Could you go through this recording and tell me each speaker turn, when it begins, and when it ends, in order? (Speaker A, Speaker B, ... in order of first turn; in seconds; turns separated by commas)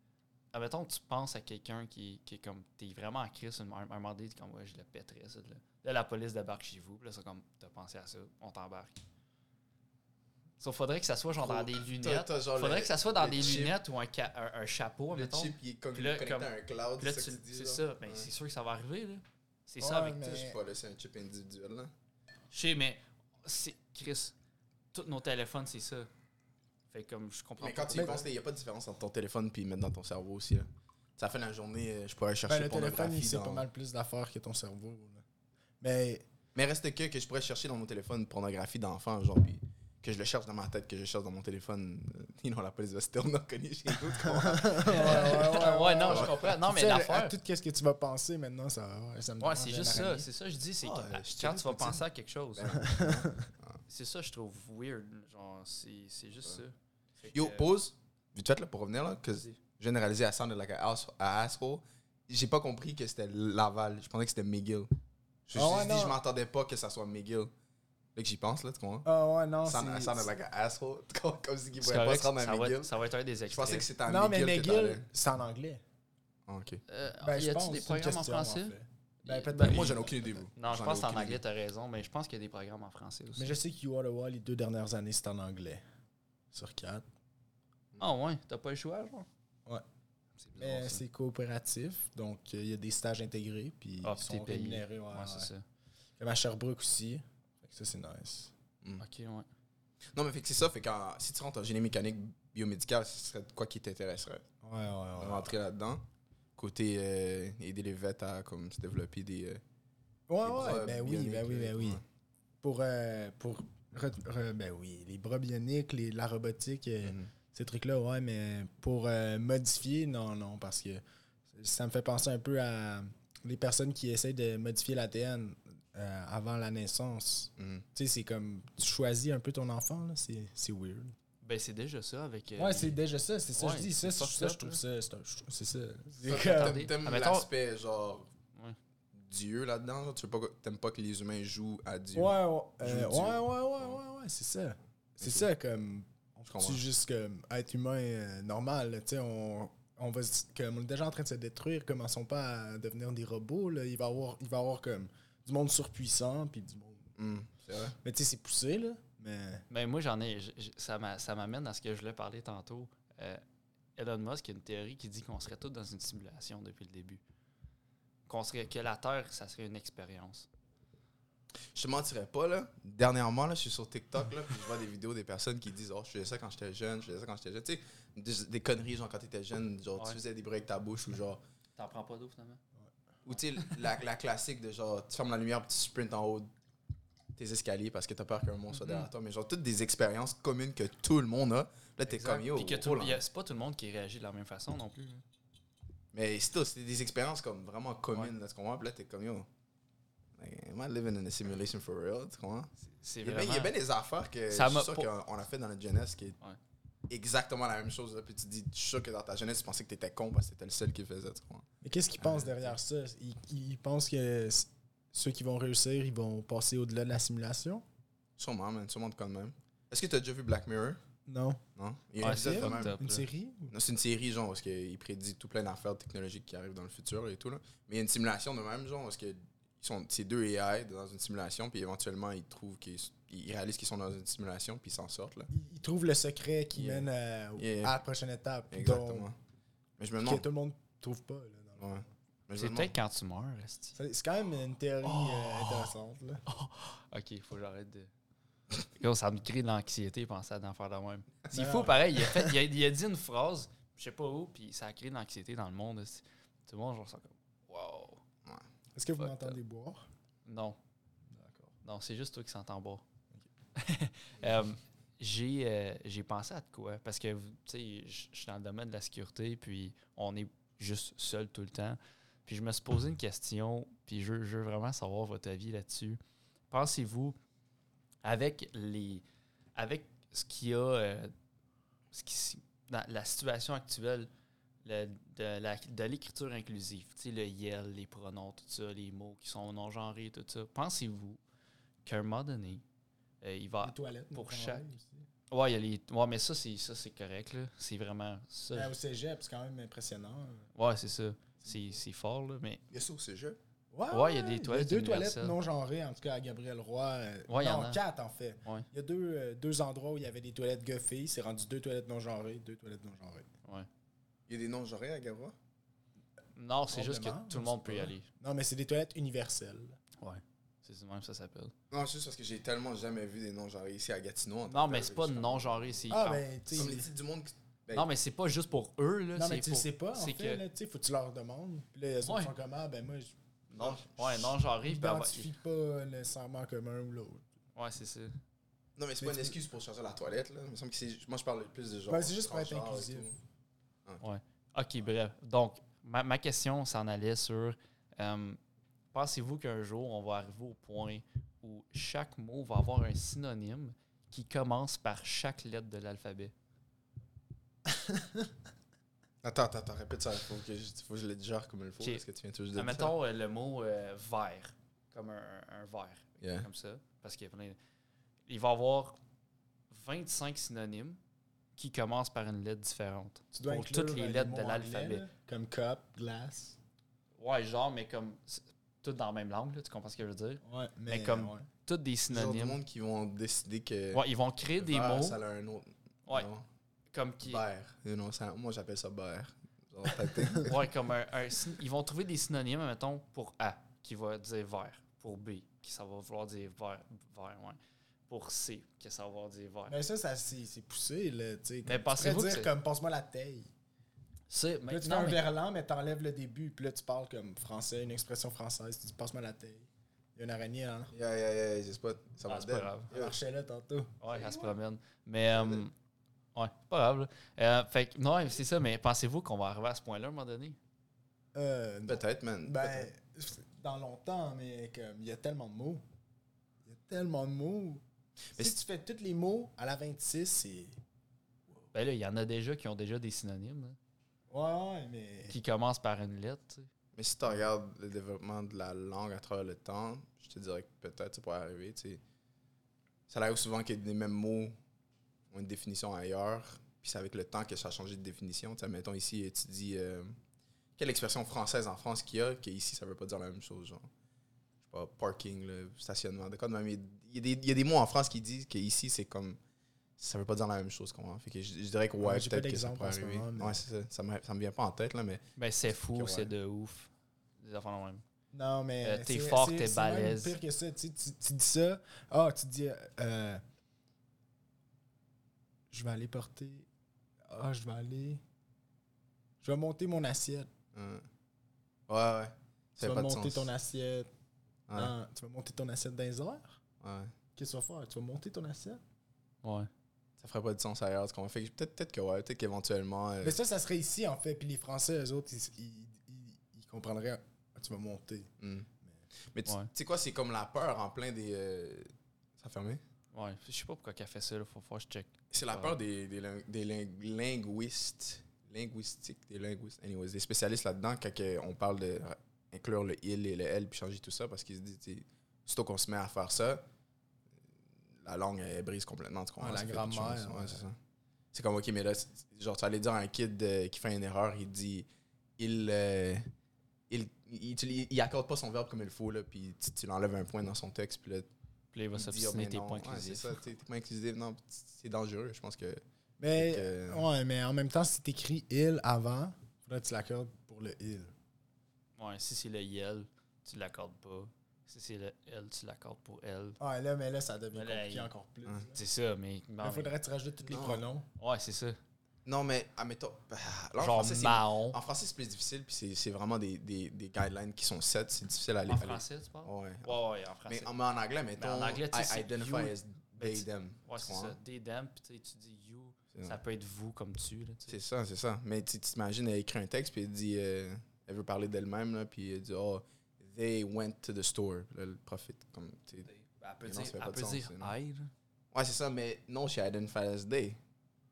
Speaker A: 0.5-8.9, Speaker A: 10.6-20.3, Speaker B: 11.4-13.8, Speaker B: 15.1-18.3, Speaker C: 19.8-20.6, Speaker B: 20.2-21.9, Speaker A: 22.5-24.3, Speaker A: 24.9-26.1, Speaker A: 26.9-28.2, Speaker B: 27.6-33.6, Speaker C: 27.9-28.3, Speaker C: 32.5-35.2, Speaker C: 35.8-36.2, Speaker B: 36.5-45.5, Speaker C: 44.1-50.3, Speaker A: 44.8-47.4, Speaker B: 46.1-46.4, Speaker A: 49.4-52.8, Speaker B: 50.8-52.0, Speaker B: 52.6-53.8, Speaker C: 52.7-53.5, Speaker A: 53.9-57.7, Speaker B: 57.3-64.9, Speaker C: 65.5-66.2, Speaker B: 65.5-67.5, Speaker B: 68.2-69.1, Speaker C: 69.0-70.3, Speaker B: 69.6-72.9, Speaker A: 71.8-73.9, Speaker B: 73.5-75.0, Speaker C: 74.0-75.8, Speaker B: 76.5-76.8, Speaker A: 76.9-80.0, Speaker C: 77.2-80.3, Speaker B: 79.5-81.4, Speaker A: 80.5-83.5, Speaker C: 83.4-85.8, Speaker C: 86.5-87.0, Speaker A: 88.0-89.3, Speaker A: 90.4-91.0, Speaker C: 90.6-95.5, Speaker A: 94.0-95.6, Speaker C: 96.2-98.5, Speaker A: 99.0-99.5, Speaker B: 100.1-104.4, Speaker C: 104.6-105.5, Speaker B: 105.2-106.0, Speaker B: 106.6-109.6, Speaker C: 110.3-112.0, Speaker B: 110.4-112.0, Speaker C: 112.6-131.1, Speaker B: 117.0-117.3, Speaker B: 127.6-127.8, Speaker A: 131.4-133.0, Speaker C: 132.6-136.9, Speaker A: 133.5-134.8, Speaker B: 136.2-138.3, Speaker A: 136.3-137.5, Speaker B: 139.1-144.0, Speaker C: 142.1-157.1, Speaker B: 145.2-145.5, Speaker B: 146.5-146.8, Speaker B: 157.2-158.0, Speaker C: 158.0-159.6, Speaker A: 159.7-163.4, Speaker A: 163.9-167.2, Speaker A: 168.3-170.5, Speaker B: 171.7-181.4, Speaker A: 181.8-182.6, Speaker B: 183.2-186.5, Speaker B: 187.4-193.2, Speaker A: 192.1-195.2, Speaker B: 196.1-199.5, Speaker B: 200.4-202.7, Speaker A: 202.8-203.7, Speaker B: 203.2-206.4, Speaker A: 204.5-205.1, Speaker B: 207.1-211.7, Speaker C: 211.8-217.8, Speaker B: 212.2-212.5, Speaker B: 218.4-221.0, Speaker C: 221.3-221.6, Speaker B: 221.8-222.9, Speaker A: 222.2-223.2, Speaker C: 222.2-223.7, Speaker B: 223.7-235.5, Speaker C: 235.5-239.3, Speaker B: 236.7-237.9, Speaker B: 238.7-239.4, Speaker B: 240.0-240.4, Speaker C: 240.2-242.1, Speaker B: 241.8-242.9, Speaker A: 242.6-243.9, Speaker C: 243.9-246.4, Speaker A: 245.0-245.9, Speaker A: 246.4-248.1, Speaker A: 248.9-258.2, Speaker C: 251.5-252.0, Speaker C: 258.9-260.1, Speaker A: 259.2-259.6, Speaker A: 260.4-260.8, Speaker C: 261.3-261.7, Speaker A: 261.8-263.0, Speaker A: 263.8-276.2, Speaker A: 276.7-277.4, Speaker A: 278.2-279.2, Speaker A: 279.8-281.3, Speaker A: 282.1-284.3, Speaker A: 284.8-291.4, Speaker A: 292.0-292.8, Speaker A: 293.4-294.9, Speaker C: 293.8-295.2, Speaker A: 295.5-298.9, Speaker C: 298.7-300.7, Speaker A: 300.7-302.8, Speaker B: 302.9-303.6, Speaker C: 303.9-313.5, Speaker A: 304.1-305.6, Speaker A: 307.5-308.0, Speaker B: 314.5-315.5, Speaker A: 316.5-318.2, Speaker C: 316.9-320.0, Speaker A: 320.2-321.7, Speaker B: 321.9-326.2, Speaker A: 324.7-326.4, Speaker C: 326.1-327.1, Speaker B: 326.7-328.1, Speaker A: 327.9-330.6, Speaker C: 329.3-333.3, Speaker A: 332.2-332.5, Speaker A: 333.7-335.5, Speaker B: 333.8-334.4, Speaker C: 334.8-337.4, Speaker A: 337.8-338.3, Speaker B: 339.0-343.4, Speaker C: 339.2-339.6, Speaker C: 342.1-343.4, Speaker A: 344.2-348.6, Speaker A: 349.1-356.5, Speaker B: 359.4-363.1, Speaker A: 362.8-367.8, Speaker B: 366.4-366.7, Speaker A: 368.5-369.2, Speaker A: 369.9-371.2, Speaker A: 371.8-375.2, Speaker C: 373.5-376.8, Speaker A: 377.4-382.8, Speaker C: 380.6-381.7, Speaker B: 382.3-384.2, Speaker A: 384.1-385.4, Speaker B: 384.8-386.6, Speaker A: 387.1-387.6, Speaker B: 387.4-390.8, Speaker A: 390.6-397.8, Speaker A: 398.3-400.0, Speaker C: 399.9-403.7, Speaker A: 401.8-402.7, Speaker A: 404.5-405.4, Speaker C: 404.9-411.1, Speaker B: 411.1-413.3, Speaker A: 412.4-413.1, Speaker C: 413.1-414.2, Speaker A: 414.2-415.9, Speaker B: 415.5-415.8, Speaker A: 416.5-420.8, Speaker C: 421.5-426.0, Speaker B: 422.1-423.1, Speaker C: 426.8-428.0, Speaker C: 428.6-431.0, Speaker A: 431.9-434.0, Speaker C: 434.5-435.5, Speaker A: 435.5-436.9, Speaker B: 437.1-442.2, Speaker B: 443.3-444.8, Speaker B: 445.5-450.3, Speaker B: 451.0-454.1, Speaker B: 454.8-459.6, Speaker B: 460.2-465.4, Speaker C: 462.2-463.8, Speaker A: 465.6-468.2, Speaker B: 466.0-466.5, Speaker C: 468.5-473.6, Speaker A: 469.0-470.6, Speaker C: 475.9-476.9, Speaker C: 477.5-478.4, Speaker C: 479.6-480.7, Speaker B: 480.9-481.2, Speaker B: 482.1-483.7, Speaker C: 483.0-484.3, Speaker B: 484.9-485.1, Speaker C: 484.9-486.8, Speaker B: 487.0-487.3, Speaker C: 487.6-489.0, Speaker A: 489.6-489.9, Speaker B: 490.4-493.6, Speaker C: 493.4-498.5, Speaker B: 498.6-498.9, Speaker B: 499.5-503.0, Speaker A: 503.3-505.9, Speaker B: 505.5-516.8, Speaker B: 518.2-521.0, Speaker C: 519.6-520.8, Speaker B: 521.5-525.1, Speaker B: 525.6-526.5, Speaker B: 527.1-531.5, Speaker A: 531.9-533.5, Speaker B: 532.1-536.0, Speaker C: 536.4-541.3, Speaker B: 536.5-537.3, Speaker A: 542.2-546.8, Speaker C: 546.8-549.0, Speaker A: 547.7-548.3, Speaker A: 548.9-550.1, Speaker C: 549.8-551.3, Speaker B: 550.7-551.0, Speaker A: 551.4-552.0, Speaker B: 552.4-564.6, Speaker A: 554.0-555.0, Speaker A: 558.9-560.9, Speaker A: 561.6-568.0, Speaker B: 567.9-576.3, Speaker A: 576.3-578.3, Speaker B: 576.8-577.9, Speaker B: 578.7-580.8